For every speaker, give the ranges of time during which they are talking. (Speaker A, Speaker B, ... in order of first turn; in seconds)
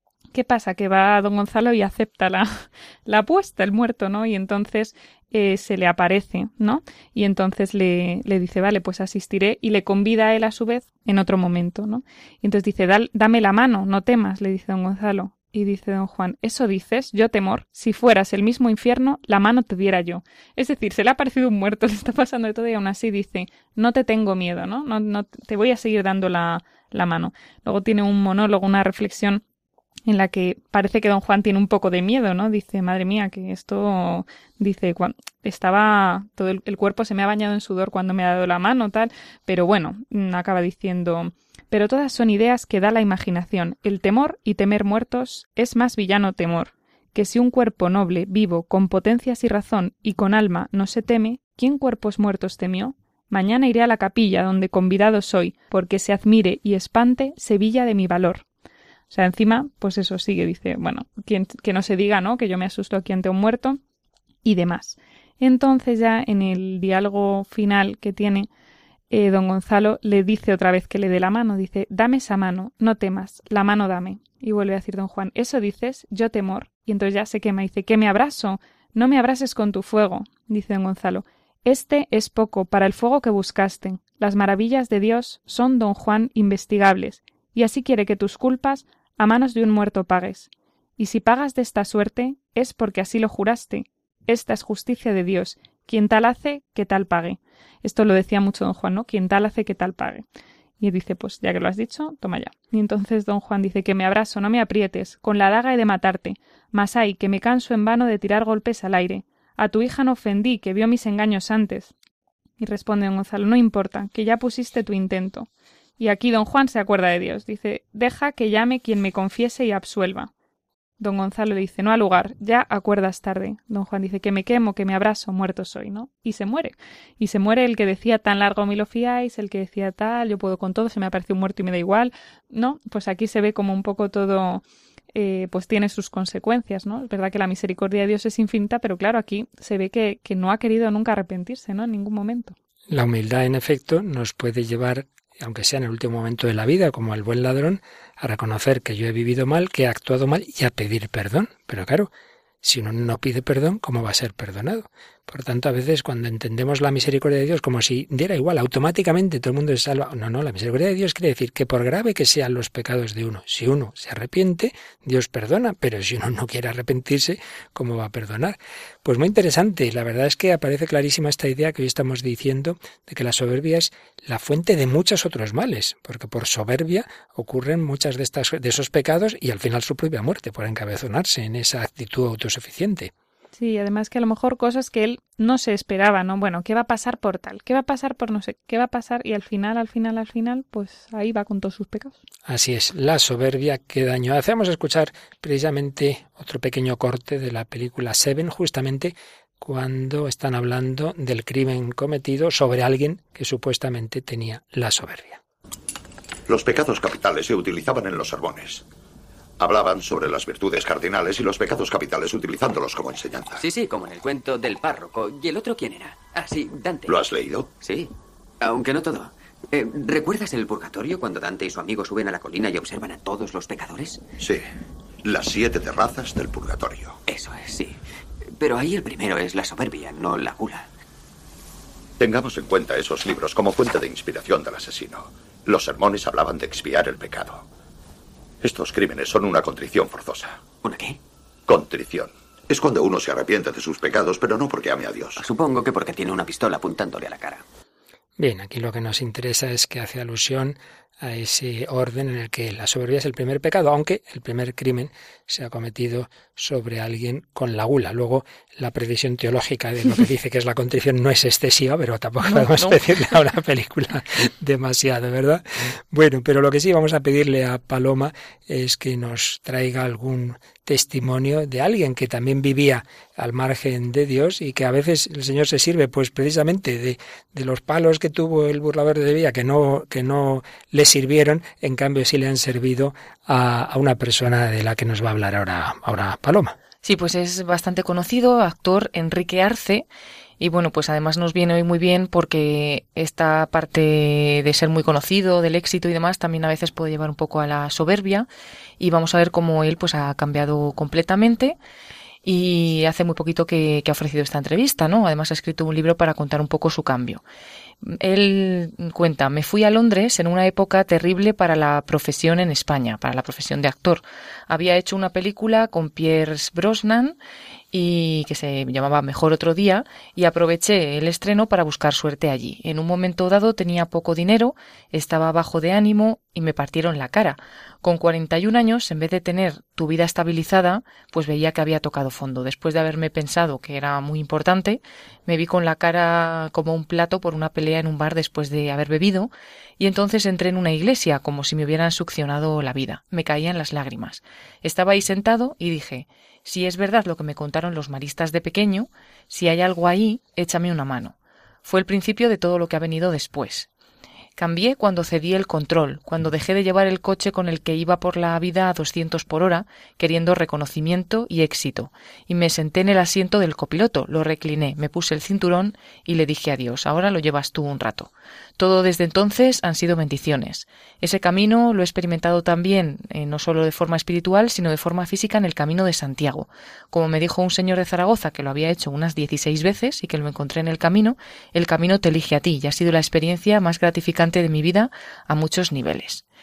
Speaker A: 0.3-29.4, 30.1-58.4, 59.1-63.8, 64.4-68.5, 69.1-100.2, 100.8-111.9, 112.6-115.5, 116.0-120.3, 121.0-142.5, 183.6-192.2
Speaker B: 142.9-152.1, 152.6-183.1, 192.5-205.4, 248.4-286.8
Speaker C: 206.5-208.8, 209.6-213.6, 217.1-217.7, 224.4-224.7, 225.2-227.2, 232.2-237.6, 238.6-240.6, 241.7-245.4
Speaker D: 213.6-217.2, 217.8-224.2, 227.3-228.0, 228.5-230.9, 240.8-241.2, 245.4-247.6
Speaker E: 262.4-263.0, 287.0-290.1, 290.6-298.5, 299.0-301.8, 302.4-307.4, 308.0-317.4, 317.9-353.9, 354.6-386.4